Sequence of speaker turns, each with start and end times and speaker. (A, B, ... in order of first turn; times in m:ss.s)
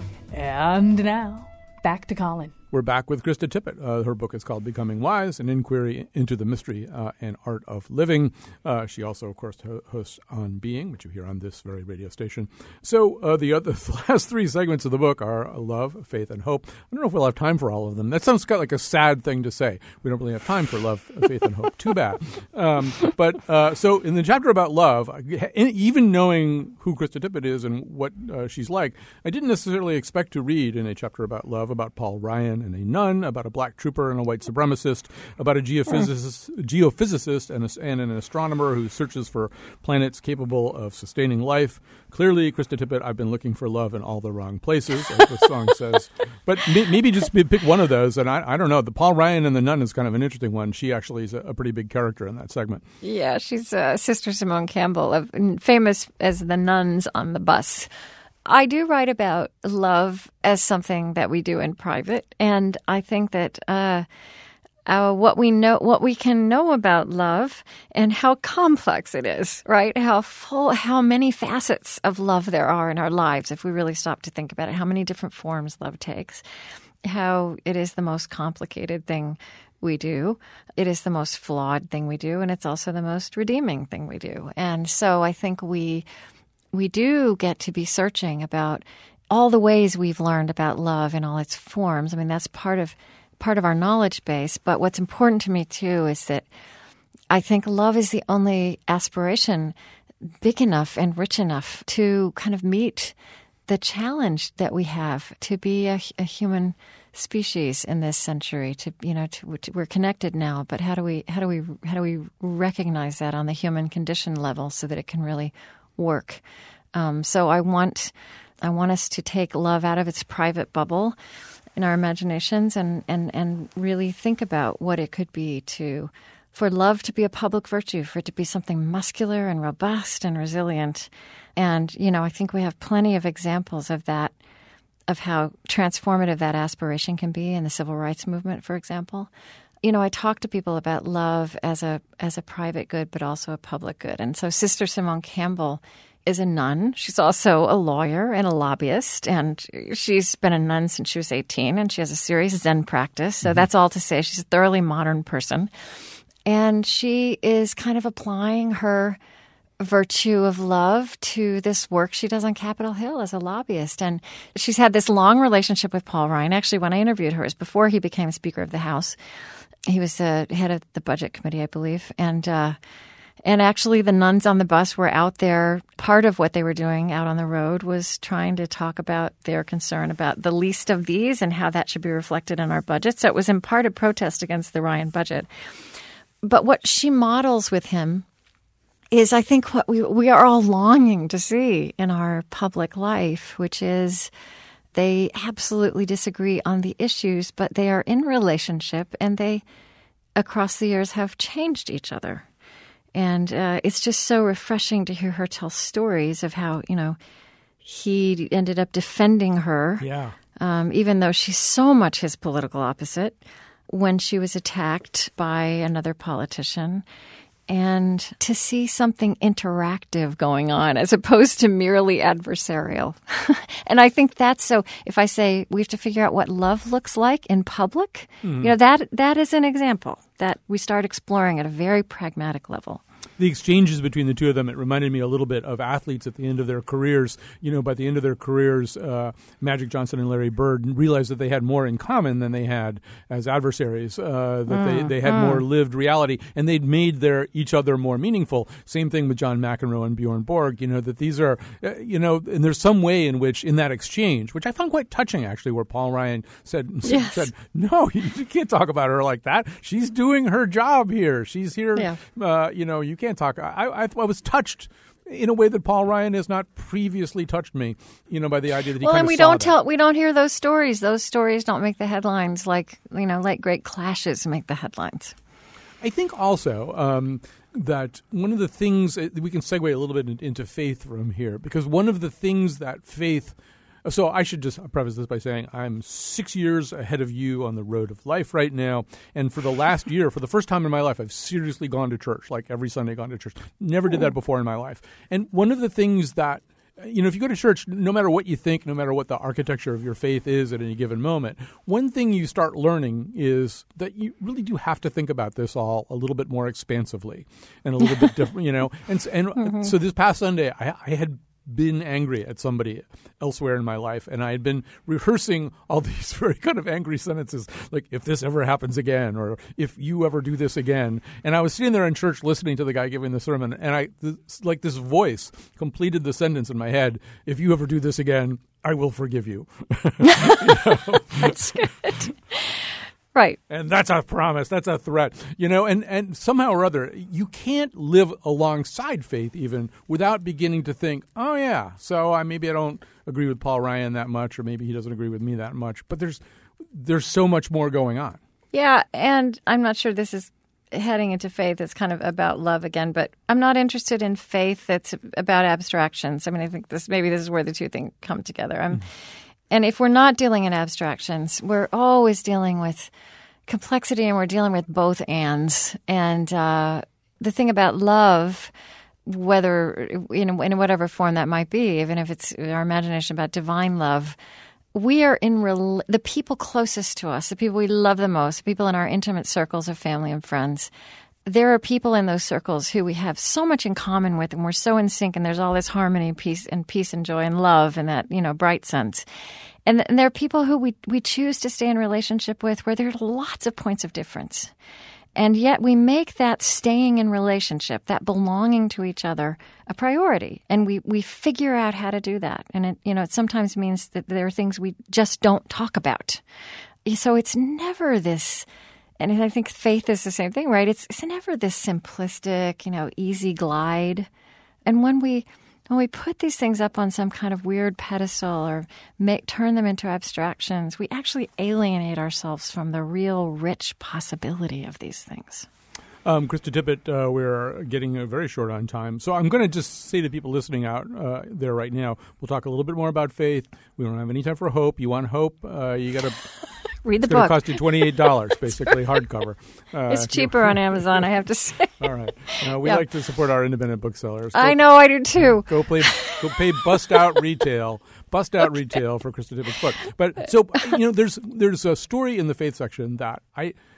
0:00.3-0:02.5 A
0:02.7-0:52.8 B
0:53.0-0:57.9 C
0:58.4-1:04.0 C
1:04.8-1:16.4 C
1:17.0-1:26.0 C
1:26.7-1:36.4 C
1:37.3-1:39.7 C
1:40.4-1:43.2 C
1:43.7-1:56.4 C
1:56.9-2:01.2 C
2:01.8-2:14.3 C
2:15.1-2:19.3 C
2:19.8-2:35.7 C
2:36.4-2:39.2 C
2:39.8-2:49.2 C
2:49.9-2:52.8 C
2:53.4-3:05.5 C
3:06.4-3:08.2 C
3:09.1-3:14.3 C
3:14.9-3:19.6 C
3:20.4-3:22.4 C
3:23.1-3:27.2 C
3:27.8-3:30.0 C
3:30.0-3:30.4 B
3:30.6-3:37.0 C
3:37.7-3:53.0 C
3:48.4-3:48.7 B
3:53.4-4:29.7 B
4:04.7-4:05.6 C
4:17.1-4:17.5 C
4:29.0-4:35.3 C
4:36.0-5:32.1 B
5:09.6-5:09.9 C
5:30.3-5:32.7 C
5:33.7-5:46.4 B
5:46.9-5:48.4 B
5:48.7-5:59.0 C
5:59.7-6:03.1 C
6:03.7-6:08.7 C
6:09.2-6:14.4 C
6:14.9-6:20.9 C
6:21.4-6:29.2 C
6:29.8-6:34.7 C
6:35.4-6:46.4 C
6:47.0-6:48.7 C
6:49.2-6:54.3 C
6:54.8-7:05.7 C
7:06.2-7:16.4 B
7:17.0-7:17.8 C
7:17.2-7:21.2 B
7:20.1-7:23.0 C
7:22.0-7:24.8 B
7:24.5-7:26.6 C
7:25.4-7:33.7 B